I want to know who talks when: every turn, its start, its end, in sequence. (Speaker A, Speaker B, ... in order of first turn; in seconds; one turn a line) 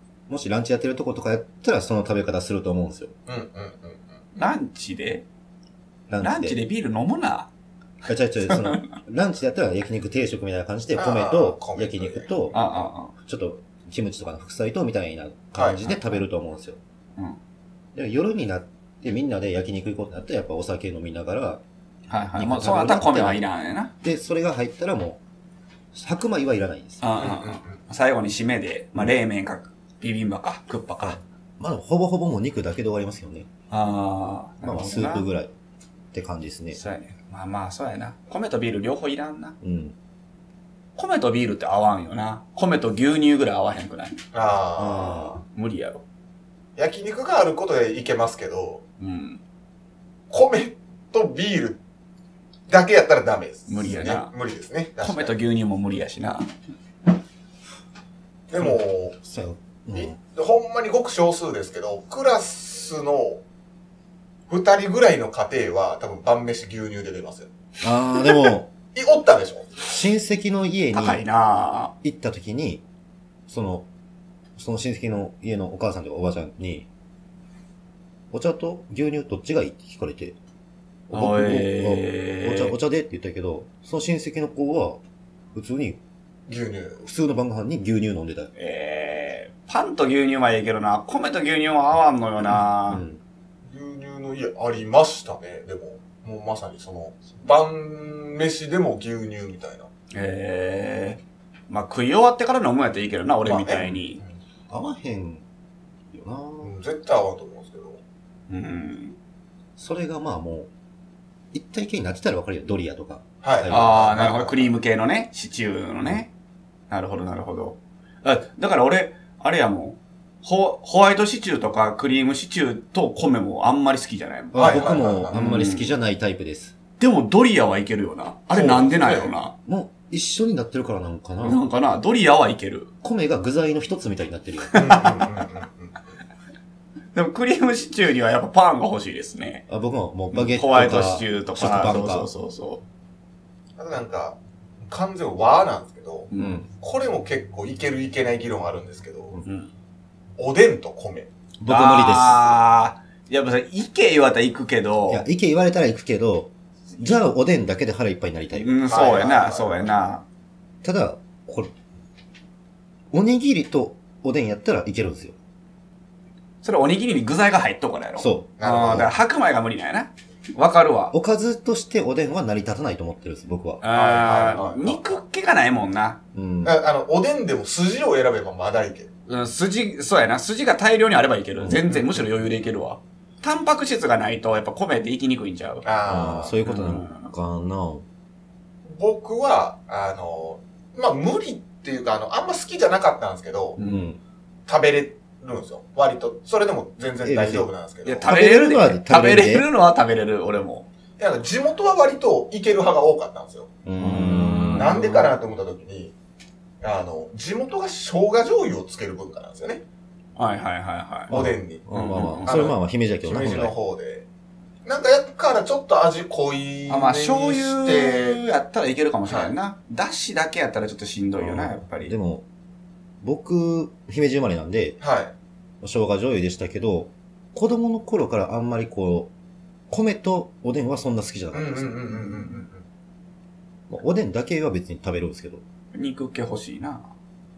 Speaker A: 0.3-3.1
Speaker B: 3.3-4.2
Speaker C: 4.4-5.2
Speaker A: 6.1-6.6
Speaker C: 6.2-7.5
Speaker A: 8.1-12.6
Speaker C: 8.5-8.9
Speaker B: 11.0-12.3
Speaker C: 12.5-13.1
Speaker A: 13.1-16.8
Speaker B: 15.6-15.9
Speaker A: 17.9-21.6
Speaker C: 22.1-23.9
Speaker A: 22.4-23.4
Speaker A: 24.0-25.2
Speaker A: 25.9-27.1
Speaker C: 27.0-31.2
Speaker B: 27.2-27.7
Speaker A: 31.0-33.5
Speaker C: 33.7-35.3
Speaker A: 34.6-35.5
Speaker A: 36.1-36.8
Speaker C: 36.7-39.6
Speaker A: 39.6-40.0
Speaker C: 41.0-44.2
Speaker B: 44.3-45.4
Speaker A: 44.8-45.4
Speaker C: 45.5-46.0
Speaker B: 46.8-48.8
Speaker C: 49.0-49.4
Speaker B: 50.3-51.8
Speaker B: 52.7-55.3
Speaker C: 53.7-54.3
Speaker C: 55.0-56.5
Speaker B: 58.5-59.2
Speaker A: 58.6-60.1
Speaker B: 59.9-63.4
Speaker B: 64.5-67.5
Speaker A: 67.8-68.7
Speaker B: 68.9-69.9
Speaker A: 69.8-71.2
Speaker C: 70.9-71.9
Speaker A: 72.0-72.8
Speaker A: 73.5-73.9
Speaker A: 74.6-76.9
Speaker A: 78.3-80.4
Speaker A: 81.1-85.0
Speaker C: 81.1-82.8
Speaker A: 85.5-86.0
Speaker B: 86.5-87.1
Speaker A: 87.0-88.5
Speaker C: 88.6-93.0
Speaker A: 92.9-93.2
Speaker B: 93.7-99.9
Speaker C: 100.1-104.2
Speaker B: 103.5-104.3
Speaker A: 104.7-105.4
Speaker A: 106.1-106.7
Speaker B: 106.6-108.0
Speaker C: 108.5-109.2
Speaker A: 109.8-110.7
Speaker A: 111.5-114.2
Speaker B: 113.4-114.7
Speaker C: 113.7-116.3
Speaker C: 116.9-125.9
Speaker A: 124.5-126.8
Speaker B: 124.5-125.4
Speaker C: 127.0-129.5
Speaker B: 128.5-129.3
Speaker A: 129.7-131.6
Speaker C: 131.4-132.9
Speaker A: 133.0-135.0
Speaker C: 134.7-135.1
Speaker B: 134.8-136.0
Speaker C: 137.1-139.6
Speaker A: 139.7-142.3
Speaker C: 140.3-142.8
Speaker B: 143.8-149.3
Speaker C: 146.3-146.6
Speaker A: 146.4-146.7
Speaker C: 149.4-149.7
Speaker B: 150.4-151.3
Speaker A: 151.6-152.6
Speaker C: 151.7-155.3
Speaker A: 155.1-158.7
Speaker C: 158.5-160.2
Speaker B: 158.9-159.9
Speaker A: 160.8-161.7
Speaker A: 163.1-165.4
Speaker C: 166.6-171.1
Speaker A: 168.2-169.1
Speaker B: 168.6-169.1
Speaker A: 171.1-173.8
Speaker C: 173.8-176.2
Speaker B: 173.9-175.1
Speaker A: 176.3-176.8
Speaker B: 176.6-179.1
Speaker C: 179.3-185.9
Speaker A: 181.6-181.9
Speaker B: 185.8-186.6
Speaker A: 186.1-188.1
Speaker C: 186.6-187.3
Speaker B: 188.9-193.8
Speaker C: 193.8-194.1
Speaker A: 193.8-194.2
Speaker B: 194.7-198.3
Speaker A: 197.2-197.7
Speaker C: 198.1-200.9
Speaker A: 198.2-199.7
Speaker B: 201.2-203.7
Speaker A: 203.8-204.9
Speaker C: 204.0-205.3
Speaker B: 204.7-206.1
Speaker B: 206.8-209.8
Speaker C: 210.4-211.3
Speaker B: 211.3-211.9
Speaker A: 211.3-213.7
Speaker C: 211.9-212.7
Speaker B: 212.4-214.3
Speaker B: 214.8-218.4
Speaker C: 216.9-222.1
Speaker B: 219.3-219.5
Speaker A: 221.4-222.4
Speaker A: 223.2-225.0
Speaker B: 225.0-225.3
Speaker A: 225.8-229.3
Speaker A: 229.9-232.6
Speaker B: 231.5-232.8
Speaker A: 233.9-235.6
Speaker C: 235.9-237.1